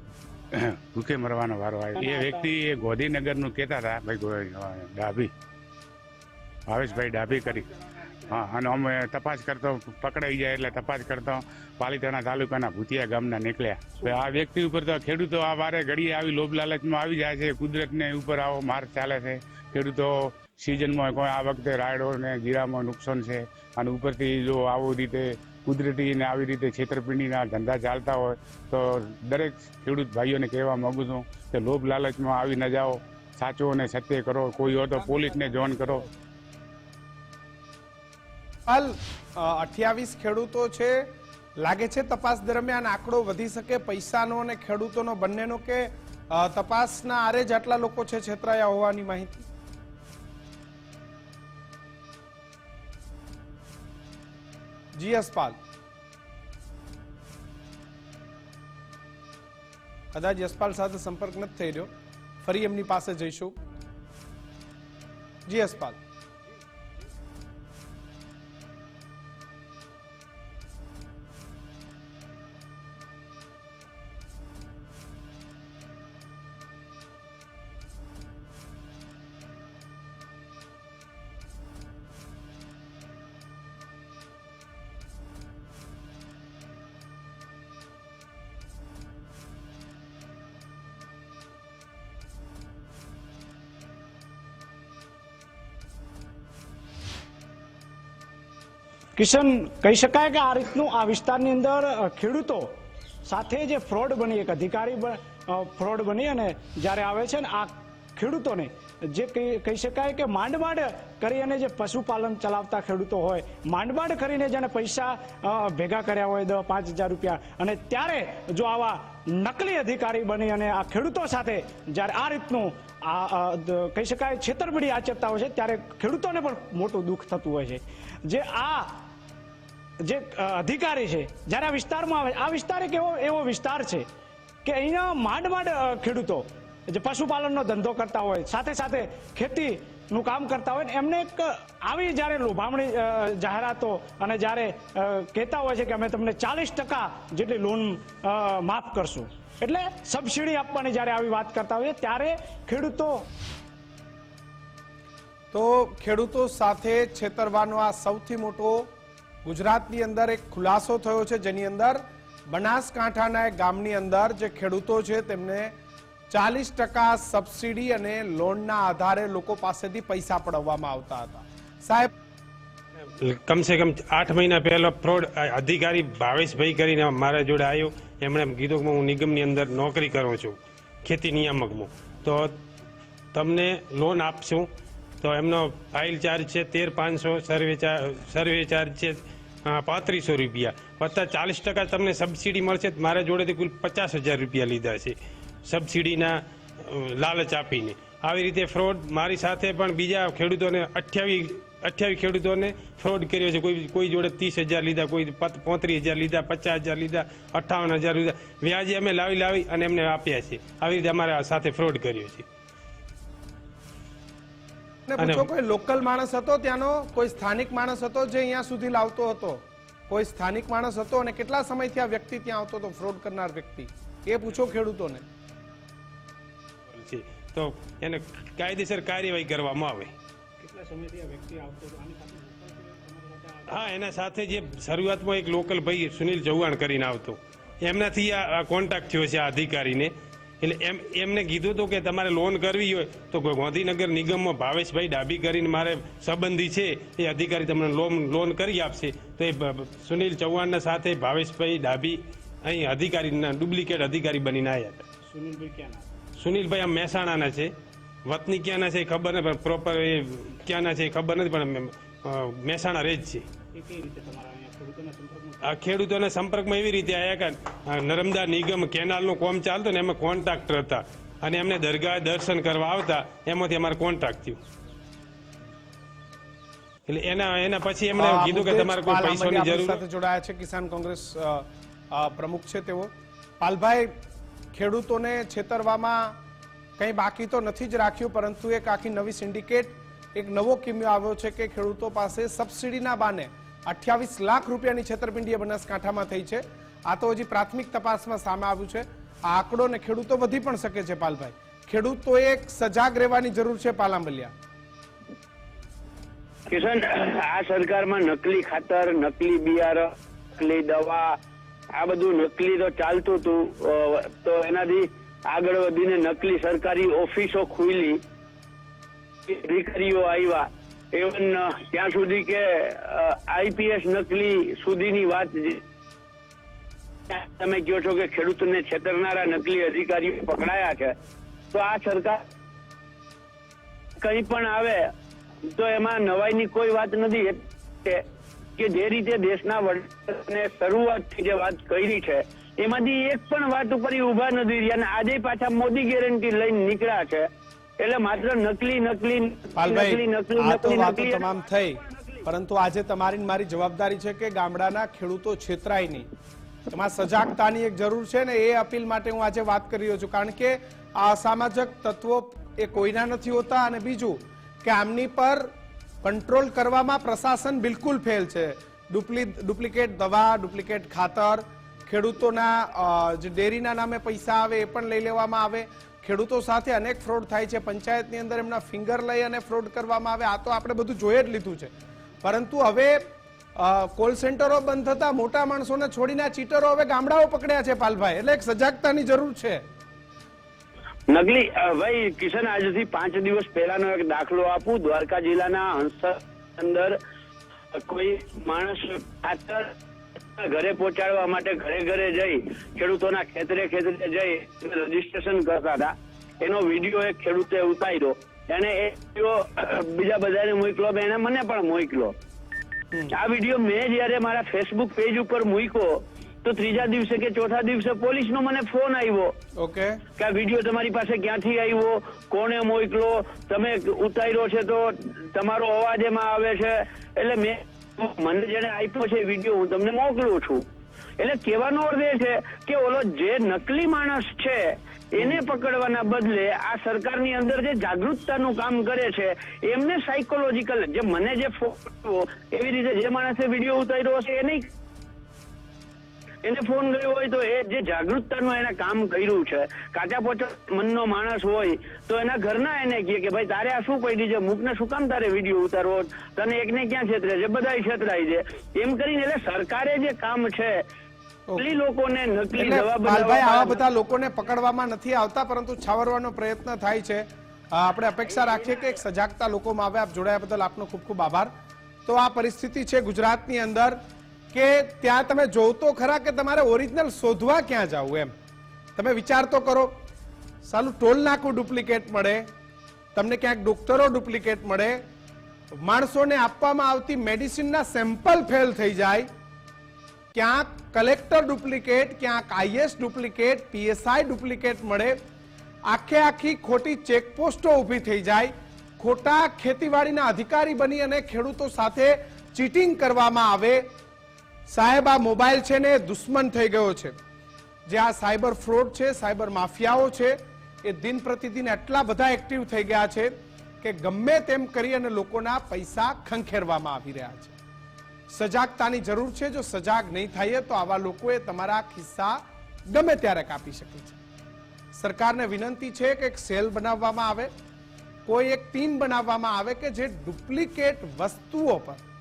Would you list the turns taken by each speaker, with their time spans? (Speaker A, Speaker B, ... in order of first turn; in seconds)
Speaker A: 0.5-5.3, 6.7-7.7, 8.2-36.1
Speaker B: 2.0-2.5, 99.2-129.1, 130.0-134.1, 134.7-153.3, 230.6-234.0, 255.2-256.2, 263.7-265.8
Speaker C: 38.7-49.5, 55.0-55.6, 60.1-61.9, 62.4-63.6, 65.5-66.0, 155.5-158.9, 159.4-165.7, 166.3-172.1, 215.1-225.2, 278.2-284.1, 284.7-286.4, 287.0-304.5, 349.8-356.3, 356.9-365.7, 366.2-383.2, 383.8-389.8, 419.8-420.2, 461.7-462.0, 462.7-471.7, 472.3-474.2, 474.7-478.5, 479.2-480.2, 480.9-482.7, 483.4-485.2, 486.0-489.5, 490.5-495.4, 496.1-504.1, 504.9-507.4, 508.1-517.7, 518.5-524.4, 525.1-527.7, 528.5-532.2
Speaker D: 173.1-182.6, 183.3-184.7, 185.2-195.2, 195.7-212.5, 215.2-215.5, 226.9-230.1, 233.7-255.1, 256.4-257.7, 258.3-263.4, 265.6-274.6, 277.1-280.0
Speaker E: 306.7-311.4, 311.9-318.2, 319.5-325.8, 327.3-331.2, 331.7-332.4, 334.2-335.1, 335.7-338.2, 338.8-352.5, 391.3-397.2, 397.9-399.9, 400.6-412.4, 413.3-419.5, 420.4-430.9, 431.4-444.9, 446.6-461.1, 461.8-464.0